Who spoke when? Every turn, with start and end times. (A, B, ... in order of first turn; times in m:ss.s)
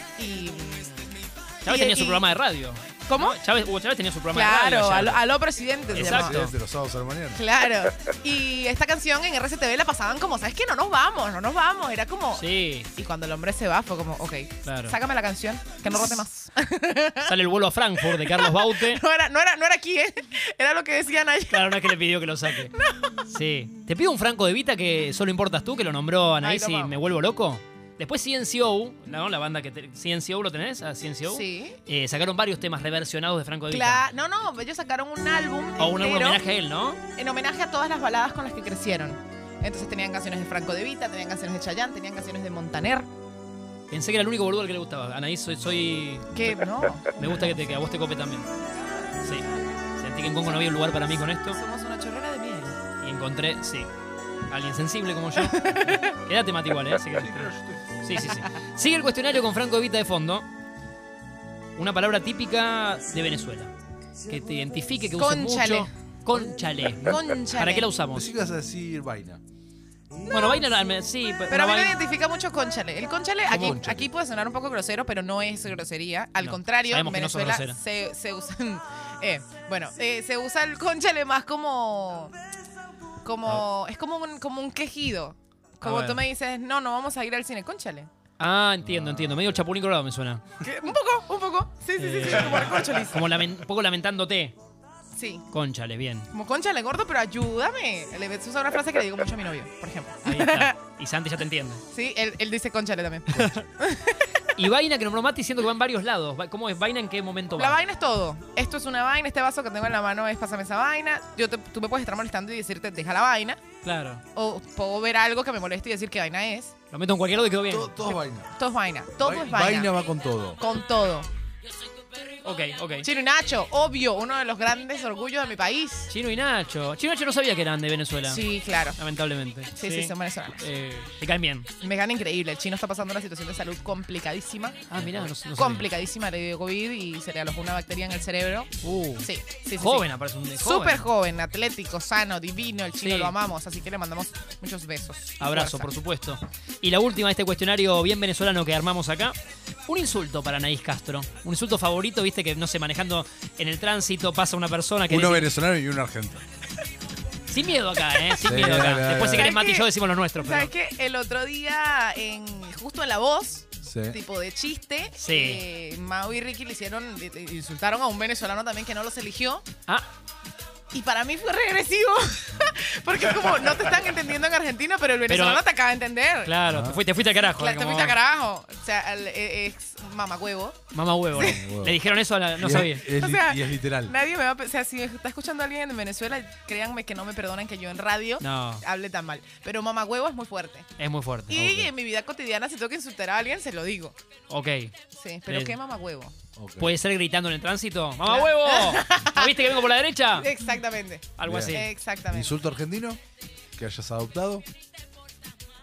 0:00.2-0:02.3 A
0:01.6-0:05.2 B
0:03.1-0:03.4 A
0:04.3-0:06.4 A
0:05.9-0:07.4 C
0:05.9-0:06.5 B
0:07.3-0:12.4 A
0:12.3-0:12.9 B
0:12.9-0:17.3 A
0:14.6-0:15.0 B
0:17.2-0:19.0 B
0:18.0-0:21.9 A
0:21.5-0:22.7 B
0:22.7-0:23.2 A
0:23.3-0:34.0 B
0:26.4-0:27.0 A
0:31.3-0:31.8 A
0:33.7-0:36.4 A
0:35.8-0:37.0 B
0:37.2-0:43.0 A
0:43.9-0:46.6 B
0:46.3-0:47.4 A
0:47.1-0:48.5 B
0:50.0-0:51.6 B
0:50.8-0:52.8 A
0:53.0-0:53.9 B
0:54.5-1:00.5 B
0:55.4-0:56.1 A
0:57.1-0:57.9 C
1:01.8-1:03.7 B
1:04.3-1:08.3 B
1:05.2-1:05.9 A
1:07.0-1:07.9 A
1:08.1-1:09.4 C
1:10.3-1:12.0 B
1:11.5-1:22.3 A
1:13.5-1:13.8 B
1:13.5-1:14.1 C
1:16.4-1:17.8 B
1:23.2-1:28.1 A
1:25.8-1:26.2 B
1:28.4-1:30.4 B
1:28.8-1:29.6 C
1:30.6-1:33.3 A
1:32.0-1:34.5 B
1:35.2-1:35.4 A
1:35.5-1:36.3 B
1:36.3-1:40.7 A
1:40.2-1:41.8 B
1:41.9-1:44.3 A
1:43.3-1:43.6 B
1:44.5-1:47.8 B
1:47.6-1:53.6 A
1:53.8-1:54.2 B
1:54.3-1:56.7 A
1:56.9-1:57.9 B
1:57.7-1:58.5 C
1:58.0-1:59.9 A
1:59.2-2:00.6 C
2:00.6-2:01.3 A
2:02.4-2:03.0 B
2:03.0-2:06.1 A
2:06.1-2:11.7 B
2:08.3-2:09.0 A
2:09.7-2:10.6 A
2:11.8-2:25.9 A
2:14.9-2:15.9 B
2:18.8-2:19.3 B
2:19.8-2:21.0 B
2:23.0-2:23.3 B
2:25.4-2:35.4 B
2:35.1-2:36.4 C
2:37.5-2:40.7 B
2:38.4-2:39.5 C
2:39.3-2:39.9 A
2:40.4-2:49.6 A
2:43.8-2:44.2 C
2:45.2-2:45.6 B
2:50.9-2:56.5 A
2:55.3-2:55.6 B
2:56.4-2:58.2 B
2:56.6-2:57.0 C
2:57.4-3:00.8 A
3:00.9-3:03.0 B
3:01.3-3:01.6 A
3:01.4-3:02.0 C
3:02.6-3:04.1 C
3:03.0-3:10.8 A
3:08.4-3:08.8 B
3:11.0-3:11.6 B
3:11.5-3:14.1 A
3:11.5-3:11.9 C
3:14.5-3:14.9 B
3:15.2-3:16.3 A
3:15.5-3:15.7 B
3:16.6-3:16.9 C
3:16.8-3:20.5 B
3:18.3-3:19.8 A
3:20.3-3:22.6 A
3:21.4-3:21.9 B
3:21.4-3:23.2 C
3:23.8-3:24.6 C